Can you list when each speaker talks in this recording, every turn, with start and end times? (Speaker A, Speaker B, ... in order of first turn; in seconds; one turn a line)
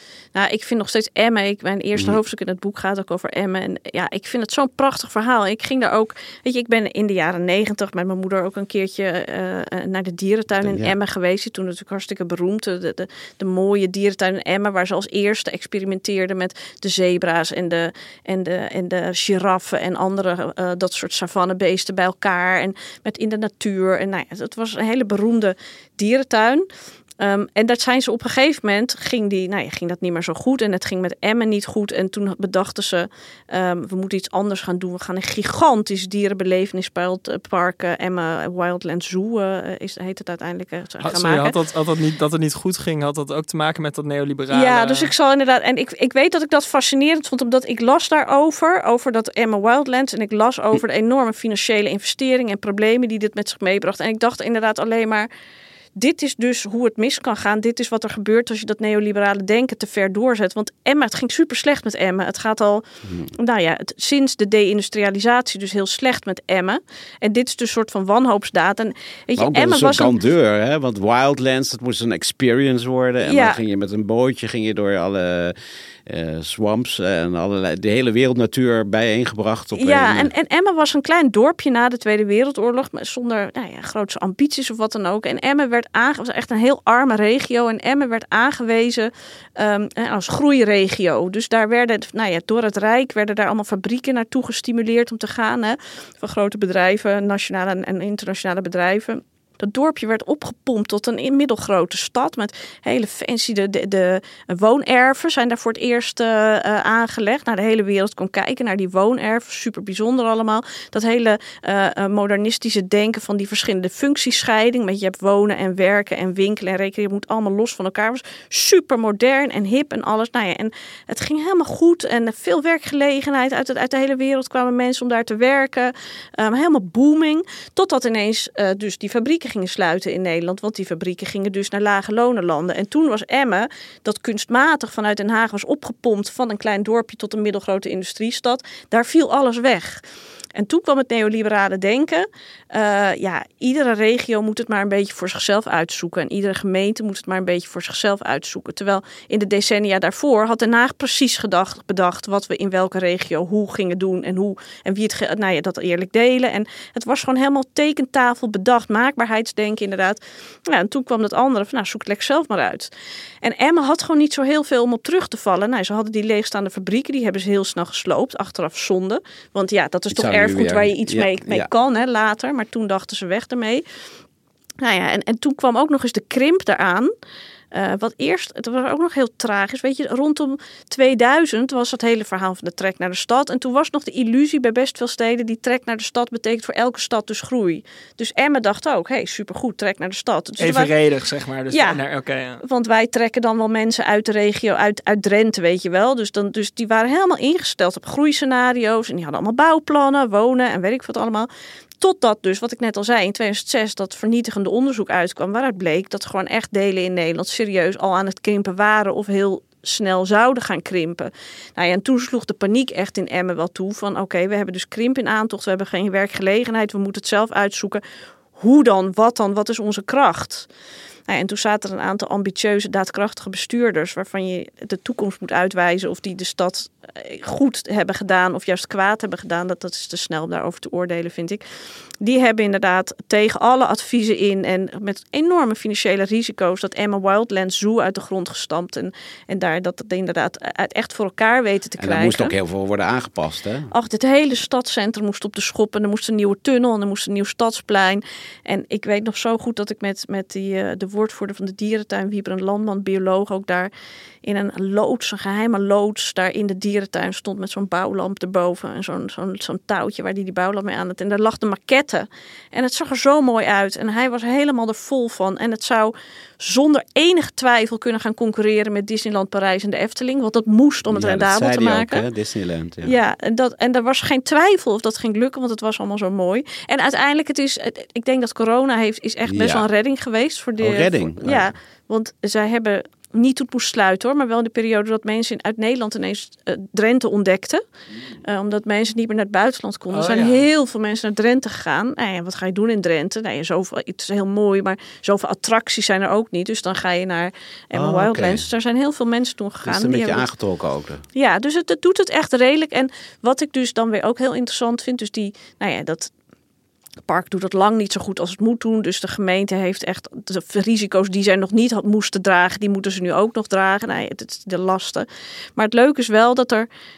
Speaker A: 0.3-26.7
Speaker B: 10.6-10.9
Speaker A: 27.2-41.6
Speaker C: 41.0-45.1
Speaker A: 44.5-55.3
Speaker A: 56.0-70.2
Speaker B: 63.0-63.3
Speaker B: 69.4-75.5
Speaker A: 73.2-73.6
Speaker B: 76.1-80.3
Speaker A: 79.8-140.0
Speaker A: 140.6-162.9
Speaker A: 163.4-173.8
Speaker B: 170.1-171.7
Speaker A: 174.8-177.1
Speaker A: 177.7-190.9
Speaker C: 190.6-192.6
Speaker A: 191.7-192.0
Speaker A: 192.6-201.5
Speaker A: 202.0-218.0
Speaker A: 218.6-220.7
Speaker A: 221.3-231.6
Speaker A: 232.2-242.5
Speaker B: 242.0-243.9
Speaker A: 243.9-253.9
Speaker A: 254.4-272.3
Speaker B: 271.1-273.2
Speaker A: 273.0-287.8
Speaker B: 279.5-279.9
Speaker B: 280.8-281.7
Speaker A: 288.4-300.5
Speaker C: 290.1-290.7
Speaker B: 297.9-298.6
Speaker B: 299.8-301.2
Speaker A: 301.4-306.3
Speaker A: 307.3-316.9